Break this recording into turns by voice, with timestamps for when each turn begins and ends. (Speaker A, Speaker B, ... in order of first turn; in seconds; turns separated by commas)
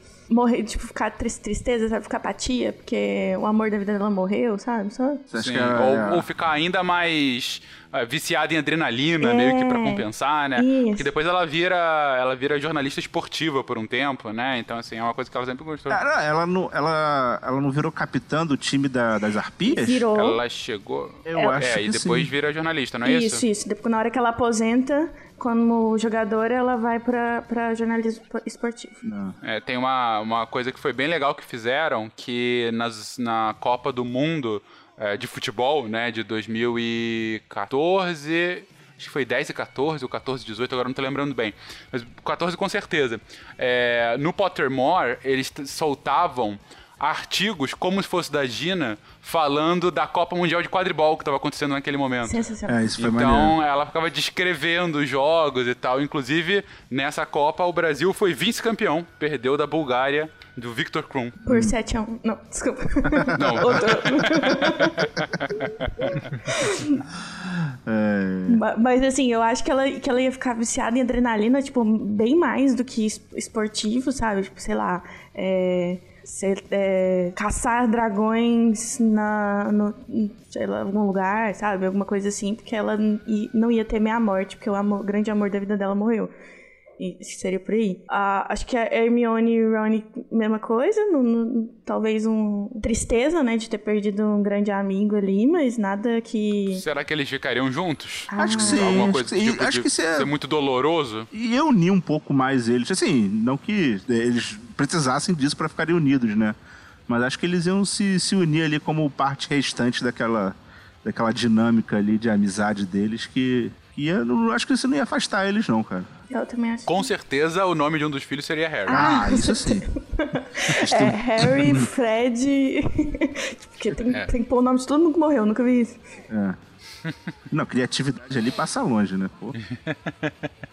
Speaker A: 0.3-5.2, Speaker B: 5.3-6.3, Speaker C: 5.4-16.0, Speaker A: 9.2-10.1, Speaker A: 10.6-11.1, Speaker B: 15.9-20.1, Speaker A: 19.7-20.4, Speaker C: 20.1-23.4, Speaker B: 21.2-22.3, Speaker A: 23.1-29.0, Speaker B: 29.0-29.4, Speaker C: 29.4-52.4, Speaker A: 52.2-52.8, Speaker B: 52.7-53.5, Speaker C: 53.0-61.4, Speaker A: 61.5-65.1, Speaker B: 61.5-61.7, Speaker B: 63.4-63.7, Speaker C: 63.4-66.2, Speaker A: 66.0-67.0, Speaker B: 67.4-68.6, Speaker A: 68.5-86.3, Speaker A: 87.0-96.8, Speaker C: 96.7-101.3, Speaker A: 98.3-99.2, Speaker B: 98.4-100.3, Speaker B: 101.3-106.6, Speaker B: 107.1-116.1, Speaker A: 116.3-117.1, Speaker C: 116.9-119.2, Speaker A: 118.9-126.0, Speaker B: 118.9-119.9, Speaker B: 120.8-121.9, Speaker B: 126.3-126.6, Speaker B: 127.5-129.6, Speaker C: 129.7-130.3